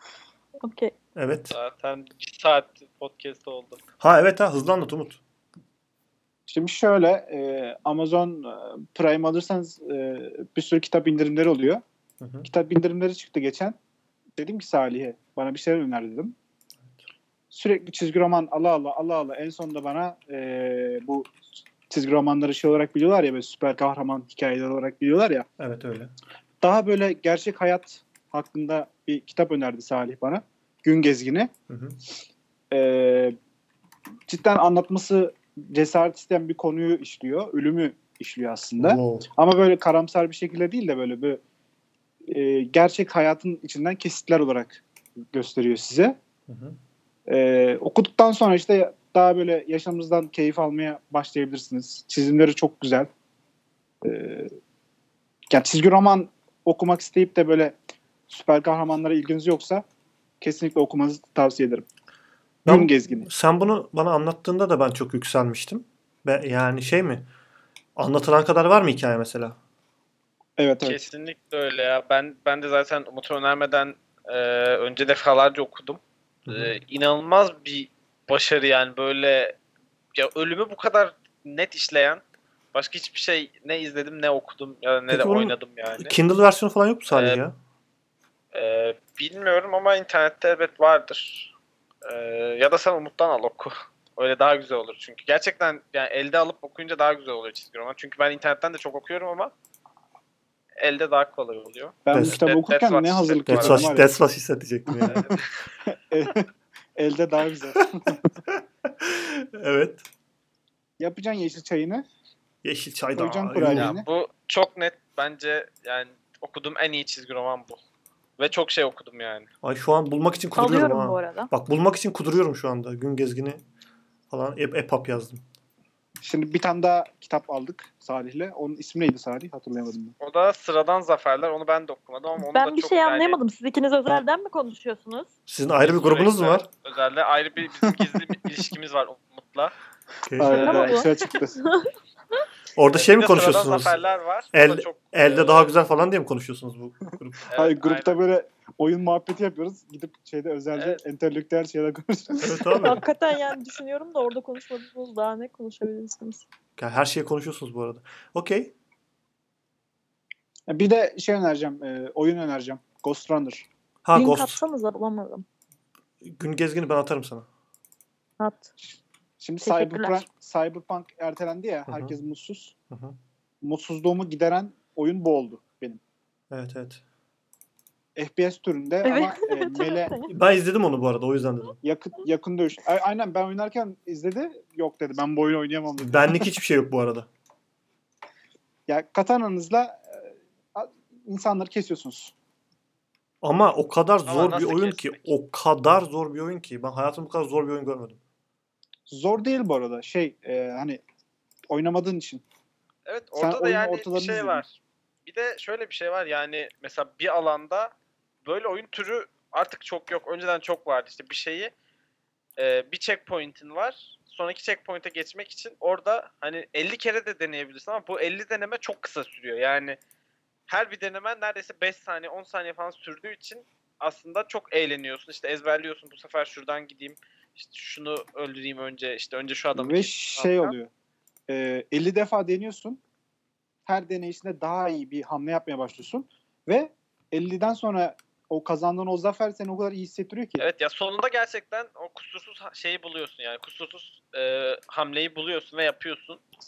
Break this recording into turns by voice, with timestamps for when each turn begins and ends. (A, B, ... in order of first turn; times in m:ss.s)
0:00.6-0:00.9 A
0:01.1-0:01.6 B
0:01.5-0:03.8 C
0:04.0-0:05.2 B
0:06.5-0:11.8 D
0:12.2-0:12.5 B
0:12.4-0:13.8 D
0:14.4-0:16.3 D
0:17.5-0:21.3 D
0:21.9-0:25.5 D
0:25.6-0:26.1 B
0:26.6-0:31.5 D
0:31.7-0:32.0 B
0:32.7-0:33.4 D
0:34.3-0:41.4 D
0:38.8-0:39.3 B
0:42.3-0:44.8 D
0:45.3-0:46.2 D
0:46.5-0:46.8 B
0:47.3-0:53.1 D
0:54.0-0:54.5 D
0:55.5-0:57.7 D
0:58.3-0:59.8 D
1:00.4-1:01.8 D
1:02.6-1:03.3 D
1:02.6-1:07.3 B
1:08.0-1:09.6 B
1:10.6-1:11.1 D
1:10.8-1:19.6 C
1:16.5-1:16.7 B
1:20.1-1:22.2 C
1:22.7-1:26.1 C
1:25.1-1:27.5 B
1:27.1-1:27.4 C
1:28.5-1:31.5 C
1:32.0-1:39.5 C
1:40.8-1:43.8 C
1:42.0-1:44.1 D
1:42.1-1:42.4 B
1:43.5-1:45.2 B
1:44.9-1:45.2 D
1:45.1-1:45.5 C
1:45.8-1:48.2 D
1:48.5-1:50.0 B
1:51.0-1:52.0 D
1:52.6-1:53.9 B
1:53.2-1:54.0 D
1:53.6-1:57.8 C
1:58.4-1:59.5 C
1:59.6-2:03.6 B
2:00.6-2:01.5 A
2:04.3-2:05.4 B
2:06.2-2:10.1 D
2:10.2-2:13.4 C
2:12.4-2:15.3 A
2:15.5-2:16.7 B
2:15.8-2:19.7 C
2:20.2-2:20.9 B
2:20.4-2:21.6 D
2:20.5-2:21.9 A
2:22.8-2:24.0 B
2:22.9-2:25.7 C
2:24.5-2:27.5 B
2:27.5-2:28.2 C
2:27.5-2:33.0 D
2:30.7-2:31.0 C
2:32.4-2:33.0 B
2:32.8-2:36.4 A
2:36.8-2:38.7 B
2:40.7-2:43.7 D
2:44.0-2:44.6 B
2:44.1-2:45.4 A
2:46.2-2:47.4 B
2:48.4-2:48.7 A
2:48.8-2:52.7 D
2:49.6-2:50.2 A
2:51.9-2:52.1 B
2:52.9-2:53.2 B
2:53.6-2:56.0 D
2:56.5-2:57.0 B
2:58.2-3:00.1 D
2:59.0-3:00.3 A
3:00.3-3:01.8 B
3:01.8-3:06.5 D
3:06.0-3:07.3 B
3:08.9-3:12.3 D
3:13.4-3:18.2 B
3:14.3-3:15.3 C
3:19.1-3:21.0 D
3:21.7-3:22.4 D
3:23.0-3:24.7 C
3:23.4-3:24.6 D
3:25.2-3:27.9 C
3:28.4-3:31.7 C
3:32.6-3:40.0 C
3:40.7-3:50.7 C
3:49.7-3:50.9 D
3:51.5-3:53.0 D
3:53.8-4:00.7 D
4:00.6-4:06.4 C